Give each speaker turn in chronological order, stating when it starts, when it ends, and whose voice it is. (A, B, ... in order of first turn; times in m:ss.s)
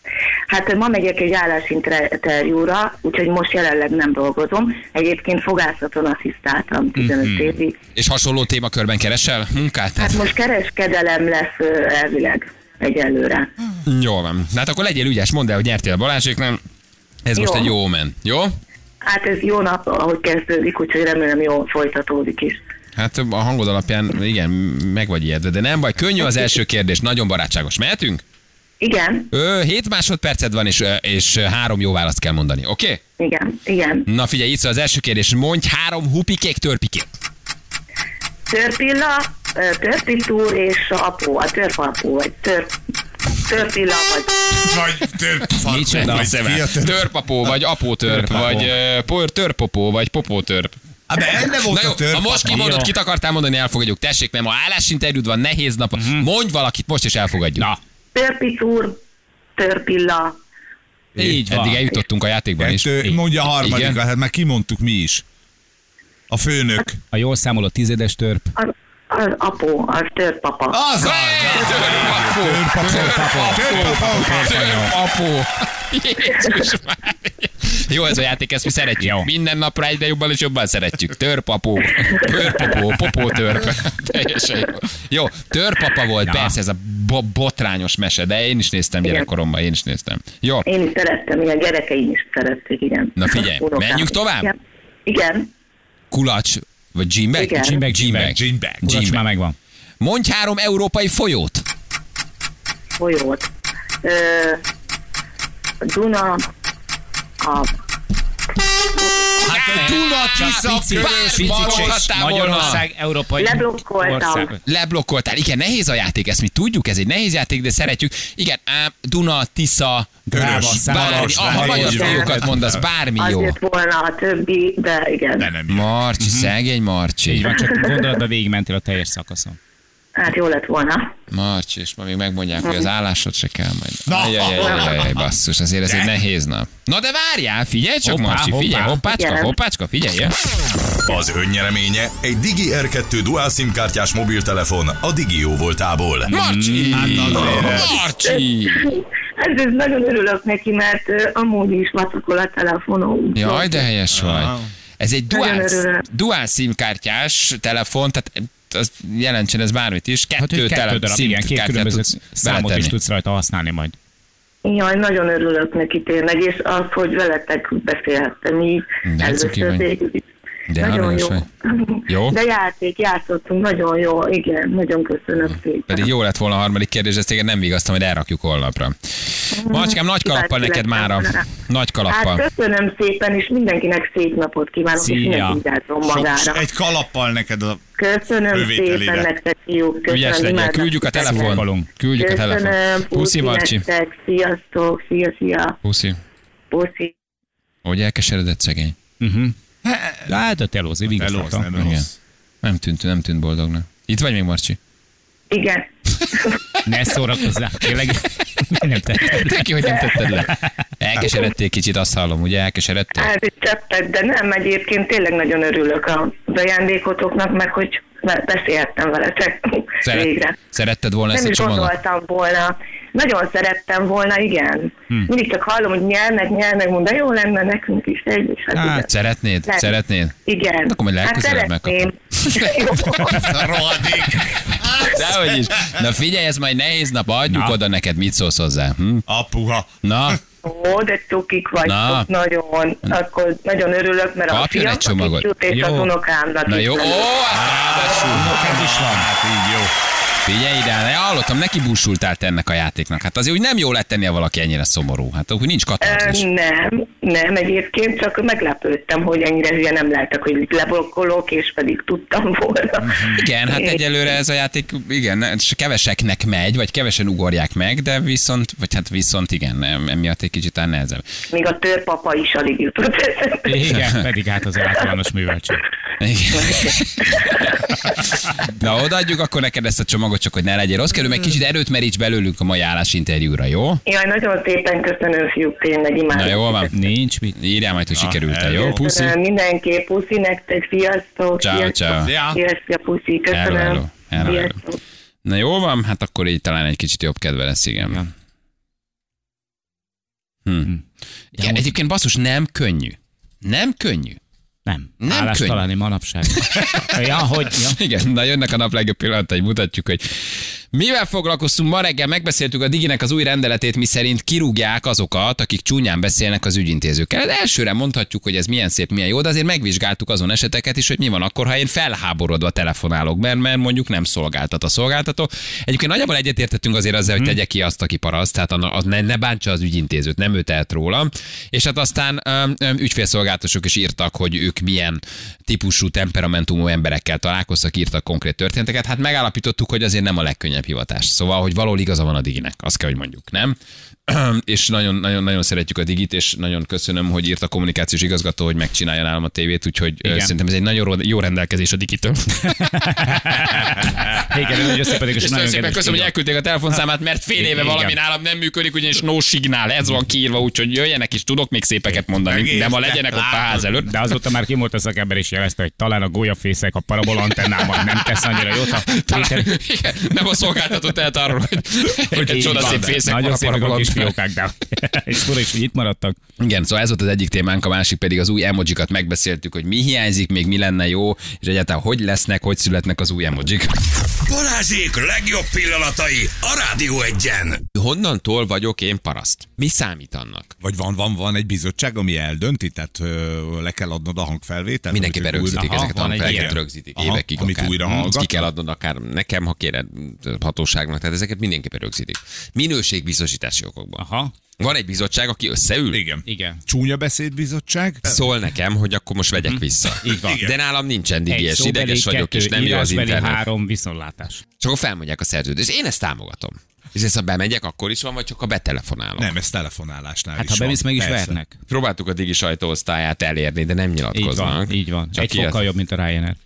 0:00.5-0:07.8 A
0:07.0-0:07.6 B
0:08.0-0:10.3 C
0:10.0-0:13.5 A
0:13.9-0:16.6 C
0:17.2-0:18.6 C
0:17.4-0:17.7 A
0:19.0-0:22.6 A
0:23.0-0:28.2 C
0:28.8-0:29.3 A
0:29.3-0:33.0 C
0:33.2-0:34.1 A
0:34.1-0:37.1 C
0:38.5-0:42.8 A
0:43.4-0:44.6 A
0:44.6-0:47.1 D
0:45.6-0:46.3 B
0:45.8-0:50.8 C
0:48.1-0:48.7 B
0:51.1-0:52.8 D
0:51.6-0:57.7 C
0:52.5-0:52.9 B
0:56.0-0:56.3 B
0:58.2-0:59.0 A
0:59.6-1:00.4 A
1:01.2-1:01.4 D
1:01.2-1:01.8 B
1:01.2-1:03.0 C
1:02.6-1:05.2 D
1:03.6-1:04.0 C
1:06.3-1:07.0 D
1:07.1-1:08.5 B
1:08.6-1:10.8 A
1:10.7-1:14.6 D
1:11.0-1:30.7 C
1:12.9-1:14.9 B
1:19.0-1:19.3 B
1:26.2-1:26.6 B
1:30.7-1:35.5 A
1:33.2-1:34.5 C
1:36.1-1:39.2 C
1:37.3-1:37.8 A
1:37.5-1:39.6 B
1:38.3-1:38.9 D
1:40.0-1:41.6 C
1:43.0-1:43.5 A
1:44.0-1:44.6 A
1:45.8-1:46.5 A
1:47.4-1:47.7 A
1:48.8-1:49.4 A
1:49.4-1:52.8 C
1:49.4-1:52.1 D
1:49.7-1:54.5 B
1:53.4-1:54.6 A
1:54.7-2:03.6 C
2:00.3-2:02.1 B
2:00.3-2:02.8 D
2:01.8-2:02.4 A
2:03.2-2:05.5 A
2:05.4-2:05.9 D
2:05.7-2:07.5 C
2:06.2-2:06.5 B
2:07.3-2:09.6 B
2:07.6-2:08.0 A
2:10.2-2:11.1 A
2:11.3-2:20.3 C
2:14.1-2:15.3 D
2:14.6-2:15.0 A
2:18.0-2:19.0 B
2:19.1-2:19.6 A
2:21.1-2:26.3 E
2:26.3-2:28.9 C
2:26.3-2:27.7 B
2:26.9-2:27.9 D
2:28.2-2:33.9 A
2:33.4-2:42.9 C
2:34.2-2:34.6 D
2:35.3-2:36.0 A
2:40.4-2:44.0 B
2:44.6-2:50.2 A
2:49.0-2:49.9 C
2:50.7-2:51.4 C
2:50.8-2:56.1 A
2:52.1-2:52.4 C
2:55.9-3:02.4 C
2:59.5-3:01.5 A
3:02.1-3:06.7 A
3:05.0-3:05.6 B
3:06.0-3:07.8 D
3:08.0-3:11.6 A
3:08.5-3:09.3 D
3:10.1-3:13.8 C
3:11.2-3:11.9 B
3:12.2-3:15.8 A
3:15.8-3:16.2 C
3:16.7-3:17.1 A
3:17.8-3:19.0 C
3:19.2-3:19.6 B
3:19.8-3:20.3 D
3:20.3-3:21.7 B
3:21.1-3:22.1 D
3:21.8-3:22.1 C
3:22.6-3:24.8 C
3:25.5-3:26.6 A
3:26.8-3:29.7 B
3:29.2-3:33.3 C
3:29.8-3:30.2 A
3:33.2-3:40.6 A
3:40.0-3:42.0 C
3:41.3-3:49.1 A
3:48.8-3:49.1 B
3:49.1-3:50.4 C
3:49.7-3:50.0 A
3:50.5-3:53.7 A
3:50.9-3:53.6 C
3:53.4-3:56.0 D
3:55.0-3:59.2 C
3:57.5-3:57.8 B
3:59.3-4:00.4 D
4:00.0-4:00.4 C
4:00.6-4:07.3 A
4:01.8-4:02.3 C
4:04.5-4:05.5 C
4:05.7-4:06.1 B
4:06.7-4:08.6 C
4:07.5-4:09.9 D
4:08.3-4:09.3 B
4:10.5-4:16.5 C
4:16.0-4:24.0 A
4:23.2-4:31.2 C
4:31.5-4:34.0 A
4:33.7-4:35.8 B
4:36.2-4:44.0 C
4:36.6-4:37.7 A
4:44.1-4:46.9 A
4:46.3-4:46.9 C
4:46.9-4:47.6 B
4:47.5-4:49.4 C
4:48.2-4:49.0 D
4:48.9-4:55.0 A
4:51.6-4:52.4 C
4:52.2-4:52.6 D
4:53.5-4:54.8 C
4:55.4-4:58.3 C
5:00.7-5:01.0 C
5:01.6-5:04.4 C
5:01.6-5:01.8 B
5:04.9-5:08.0 B
5:05.2-5:05.8 C
5:06.5-5:07.2 C
5:07.8-5:54.4 C
5:50.2-5:50.5 B
5:52.6-5:56.3 B
5:55.2-6:04.1 C
5:57.6-5:58.2 B
6:02.4-6:03.8 D
6:04.0-6:09.7 B
6:08.5-6:14.4 C
6:12.3-6:13.2 D
6:12.3-6:16.4 B
6:16.6-6:23.9 C
6:24.4-6:27.8 E
6:27.9-6:30.7 C
6:30.8-6:38.7 D
6:35.1-6:44.2 C
6:35.8-6:36.8 B
6:44.2-6:44.5 B
6:44.8-6:46.2 C
6:46.1-6:48.4 D
6:46.5-6:46.8 B
6:48.2-6:53.6 C
6:49.6-6:50.6 B
6:50.3-6:50.8 D
6:51.5-6:54.6 B
6:54.8-6:59.5 C
6:59.4-7:01.6 D
7:00.6-7:01.8 B
7:01.9-7:05.8 C
7:04.3-7:06.6 B